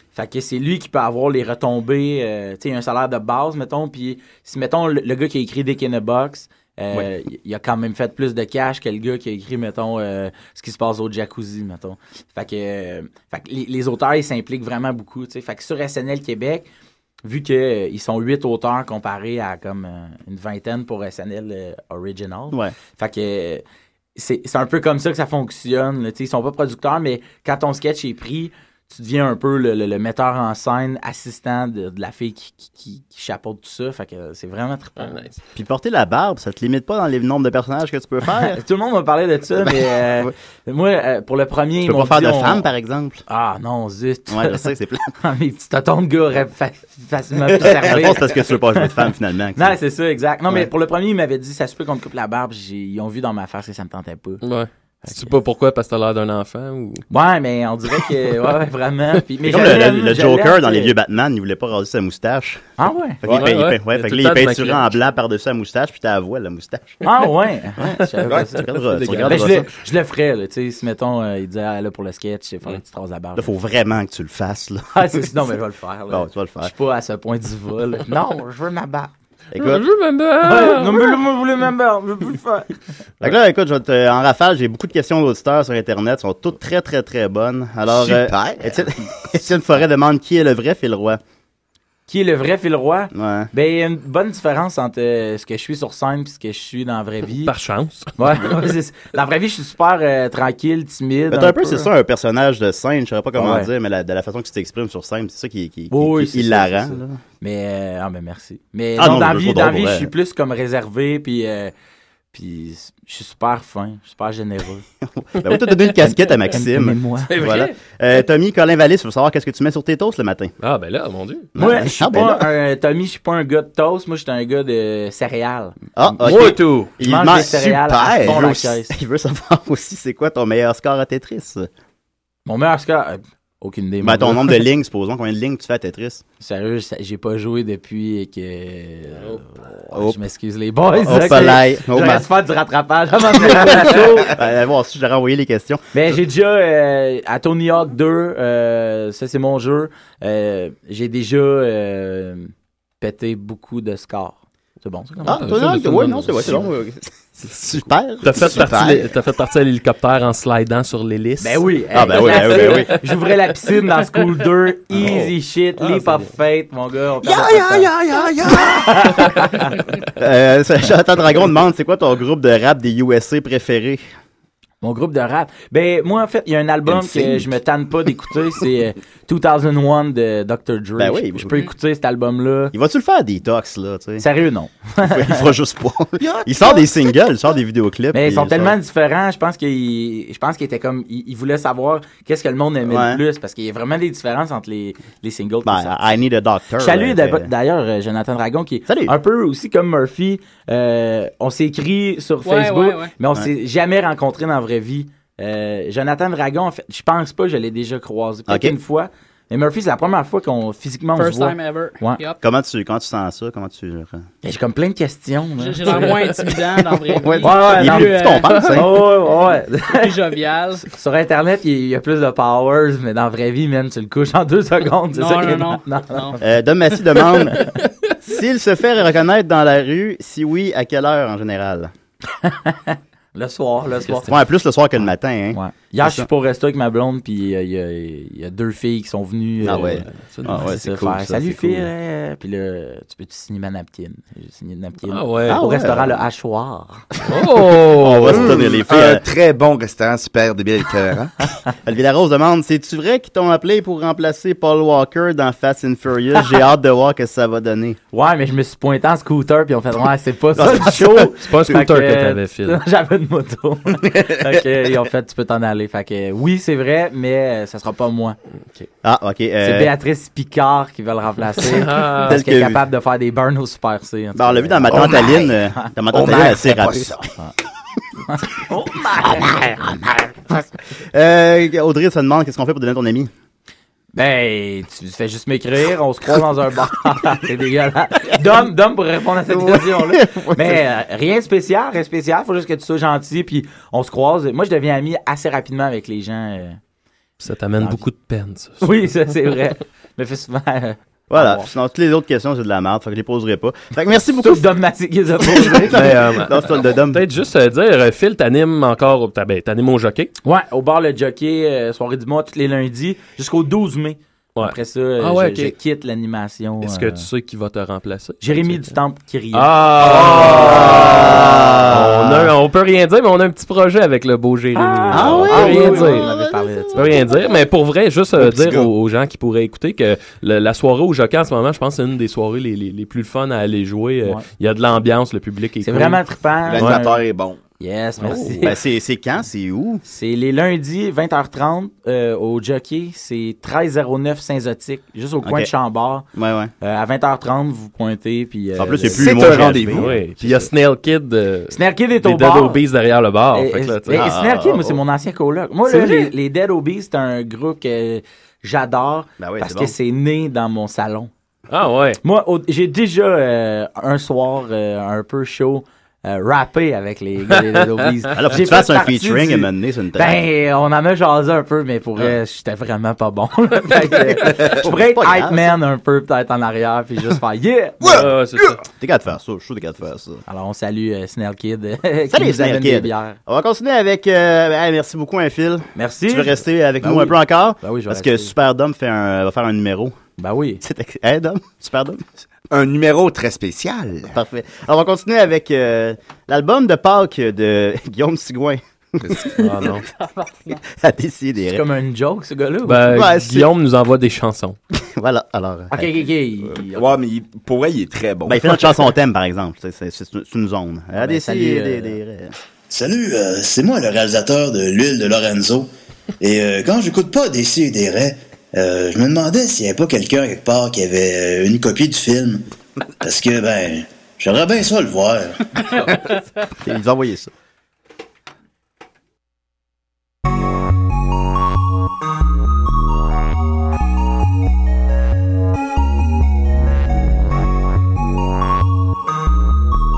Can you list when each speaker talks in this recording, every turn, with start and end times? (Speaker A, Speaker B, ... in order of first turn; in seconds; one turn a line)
Speaker A: 0.1-16.7
Speaker A: 17.2-23.6
Speaker A: 24.2-35.2
Speaker B: 35.0-35.4
Speaker C: 35.5-38.6
Speaker A: 38.5-42.7
Speaker C: 39.6-40.3
Speaker C: 41.8-43.2
Speaker A: 43.3-49.0
Speaker C: 44.3-45.1
Speaker C: 47.5-49.8
Speaker A: 49.6-54.4
Speaker B: 54.4-57.0
Speaker A: 57.1-60.9
Speaker C: 59.4-62.6
Speaker A: 62.8-63.2
Speaker C: 63.2-67.0
Speaker B: 63.3-65.0
Speaker A: 67.0-73.5
Speaker C: 67.8-69.7
Speaker B: 68.6-69.6
Speaker C: 73.4-75.3
Speaker A: 74.9-79.1
Speaker C: 76.1-76.7
Speaker C: 79.5-79.8
Speaker B: 79.6-81.2
Speaker A: 80.4-82.7
Speaker C: 83.2-91.2
Speaker D: 87.9-88.8
Speaker A: 92.1-97.5
Speaker C: 93.1-93.5
Speaker B: 97.5-98.2
Speaker A: 98.2-101.9
Speaker C: 101.3-107.2
Speaker A: 103.3-103.7
Speaker A: 105.9-111.7
Speaker C: 109.0-110.1
Speaker A: 112.3-114.8
Speaker C: 115.1-120.5
Speaker A: 116.0-117.3
Speaker B: 117.3-117.7
Speaker B: 120.6-121.5
Speaker C: 121.5-122.5
Speaker A: 121.6-128.9
Speaker C: 126.0-131.7
Speaker B: 126.2-126.9
Speaker D: 127.3-128.5
Speaker A: 132.5-134.6
Speaker C: 134.0-136.2
Speaker A: 136.4-144.3
Speaker C: 139.9-140.2
Speaker C: 140.9-142.3
Speaker C: 143.4-145.8
Speaker A: 145.9-156.6
Speaker C: 155.2-158.9
Speaker B: 155.3-156.6
Speaker B: 158.2-163.0
Speaker D: 158.4-159.1
Speaker A: 161.4-167.9
Speaker C: 161.9-162.9
Speaker B: 165.0-166.3
Speaker D: 167.2-169.3
Speaker A: 168.5-169.8
Speaker C: 170.2-174.0
Speaker A: 174.8-182.7
Speaker C: 176.9-177.4
Speaker C: 181.0-181.6
Speaker C: 182.7-184.3
Speaker A: 184.2-185.5
Speaker C: 185.0-188.8
Speaker D: 186.2-187.1
Speaker A: 188.1-196.0
Speaker C: 192.9-193.2
Speaker C: 195.7-197.5
Speaker A: 196.8-212.2
Speaker C: 198.9-199.1
Speaker E: 202.4-203.1
Speaker C: 208.5-208.8
Speaker E: 211.2-212.4
Speaker C: 212.4-214.2
Speaker A: 214.4-216.1
Speaker E: 215.6-218.8
Speaker B: 215.9-216.6
Speaker C: 217.2-219.0
Speaker A: 217.4-220.3
Speaker E: 219.9-220.9
Speaker A: 220.8-226.4
Speaker E: 225.1-226.4
Speaker C: 226.4-231.9
Speaker A: 227.1-227.7
Speaker A: 232.4-234.4
Speaker C: 234.1-236.3
Speaker A: 235.5-247.1
Speaker C: 239.6-241.9
Speaker B: 239.7-240.8
Speaker B: 245.1-245.6
Speaker C: 245.5-246.2
Speaker B: 247.2-248.6
Speaker C: 247.9-249.2
Speaker D: 248.0-251.5
Speaker C: 251.8-258.0
Speaker A: 258.1-268.4
Speaker C: 260.6-261.3
Speaker B: 261.4-262.8
Speaker C: 269.0-269.9
Speaker A: 269.6-275.9
Speaker B: 271.6-272.4
Speaker C: 272.2-272.8
Speaker C: 274.4-277.2
Speaker D: 274.9-275.5
Speaker D: 276.1-277.3
Speaker A: 278.3-280.6
Speaker C: 281.1-283.3
Speaker A: 284.1-296.8
Speaker C: 289.5-290.8
Speaker B: 297.4-299.1
Speaker A: 298.8-301.7
Speaker C: 301.3-304.7
Speaker A: 304.4-306.1
Speaker C: 305.4-307.2
Speaker B: 305.9-310.3
Speaker A: 310.4-317.2
Speaker B: 314.6-315.7
Speaker B: 316.8-319.0
Speaker A: 318.4-321.1
Speaker B: 319.5-326.3
Speaker C: 320.2-322.5
Speaker A: 324.8-327.2
Speaker C: 325.1-327.4
Speaker B: 326.9-336.2
Speaker D: 328.4-328.9
Speaker A: 335.8-337.2
Speaker D: 336.7-337.6
Speaker A: 337.8-338.8
Speaker B: 338.2-338.7
Speaker C: 338.6-340.0
Speaker A: 340.1-346.3
Speaker C: 345.4-345.7
Speaker C: 346.3-346.7
Speaker A: 346.8-349.7
Speaker C: 348.8-350.6
Speaker D: 349.1-350.1
Speaker B: 349.5-354.3
Speaker A: 351.7-352.8
Speaker A: 353.5-361.3
Speaker C: 354.1-355.0
Speaker C: 359.4-359.9
Speaker B: 361.7-362.2
Speaker A: 362.2-378.2
Speaker C: 368.4-370.4
Speaker C: 374.4-375.7
Speaker D: 378.0-378.8
Speaker B: 378.1-378.8
Speaker C: 379.0-380.4
Speaker A: 380.5-383.4
Speaker C: 382.3-390.2
Speaker A: 386.0-388.5
Speaker A: 390.4-390.8
Speaker C: 390.8-392.2
Speaker D: 392.7-394.3
Speaker C: 394.3-399.9
Speaker D: 399.2-399.5
Speaker B: 399.6-400.1
Speaker E: 400.4-400.8
Speaker C: 400.7-401.8
Speaker A: 401.7-403.1
Speaker B: 402.9-404.8
Speaker C: 403.1-403.7
Speaker C: 404.9-406.2
Speaker A: 405.9-407.0
Speaker D: 406.9-408.9
Speaker C: 408.5-412.5
Speaker A: 411.2-412.2
Speaker F: 412.9-415.9
Speaker F: 416.4-422.6
Speaker F: 423.2-425.6
Speaker C: 426.8-427.5